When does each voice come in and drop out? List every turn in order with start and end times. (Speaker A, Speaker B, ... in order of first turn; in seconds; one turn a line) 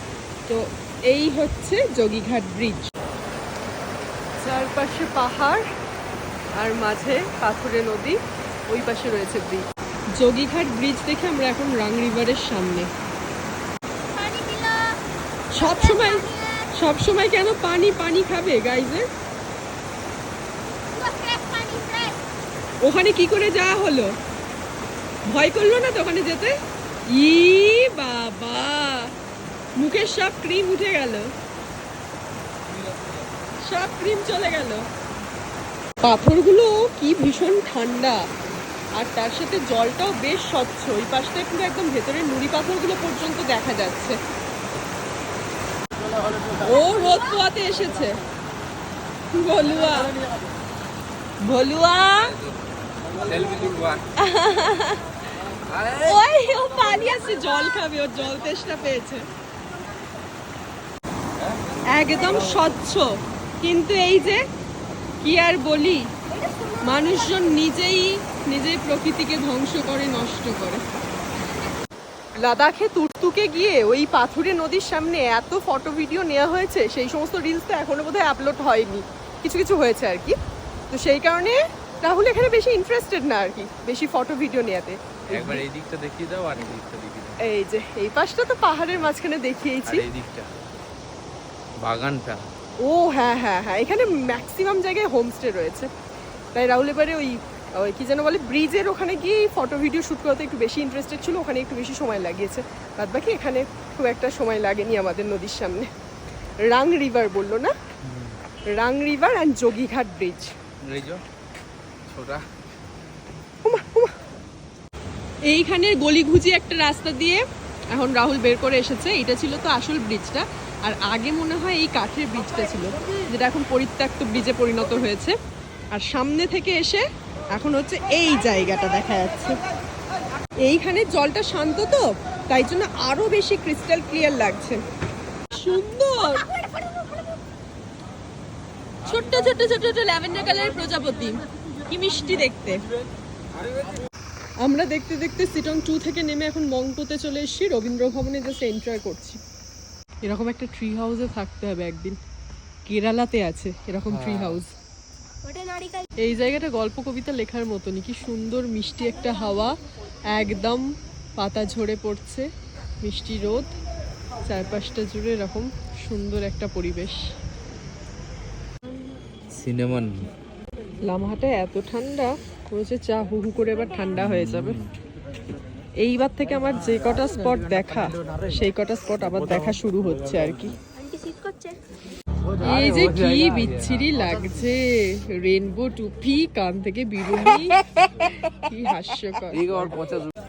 Speaker A: 0.5-2.9
Speaker A: 4.4-5.6
Speaker A: 6.5-8.2
Speaker A: 8.7-12.9
Speaker B: 14.1-15.0
Speaker A: 15.5-19.1
Speaker B: 15.5-16.7
Speaker B: 20.9-22.2
Speaker A: 22.8-24.1
Speaker A: 25.2-26.6
Speaker A: 27.1-29.1
Speaker A: 29.8-31.3
Speaker C: 32.7-33.2
Speaker A: 33.6-34.9
Speaker A: 36.0-38.2
Speaker A: 39.0-44.2
Speaker A: 46.6-48.2
Speaker A: 49.3-50.1
Speaker A: 51.4-52.3
Speaker C: 52.2-54.0
Speaker A: 54.1-55.0
Speaker C: 55.7-56.2
Speaker A: 56.0-59.3
Speaker A: 61.9-64.4
Speaker A: 65.2-66.1
Speaker B: 66.3-67.5
Speaker A: 66.8-70.8
Speaker B: 71.4-71.7
Speaker A: 72.4-80.4
Speaker A: 80.9-85.6
Speaker C: 85.3-87.4
Speaker A: 87.4-90.0
Speaker C: 89.8-90.5
Speaker C: 91.8-92.5
Speaker A: 92.8-95.9
Speaker A: 96.5-105.9
Speaker A: 106.6-107.7
Speaker C: 108.0-108.3
Speaker A: 108.7-110.5
Speaker C: 110.8-111.2
Speaker C: 112.1-112.5
Speaker A: 113.6-114.1
Speaker A: 115.5-125.3
Speaker A: 125.9-129.6
Speaker A: 130.6-134.8
Speaker A: 135.5-136.5
Speaker B: 136.4-137.3
Speaker A: 139.0-142.8
Speaker A: 144.6-149.4
Speaker A: 150.2-152.2
Speaker A: 152.8-154.7
Speaker C: 154.1-154.6
Speaker B: 155.4-156.1
Speaker A: 156.2-159.8
Speaker A: 160.3-162.5
Speaker A: 163.0-163.7
Speaker A: 164.4-167.2
Speaker C: 169.5-170.3
Speaker A: 171.0-174.8
Speaker C: 174.2-174.9
Speaker A: 176.0-180.8
Speaker B: 180.9-181.8
Speaker C: 182.5-184.2
Speaker A: 182.6-189.6
Speaker C: 189.5-190.3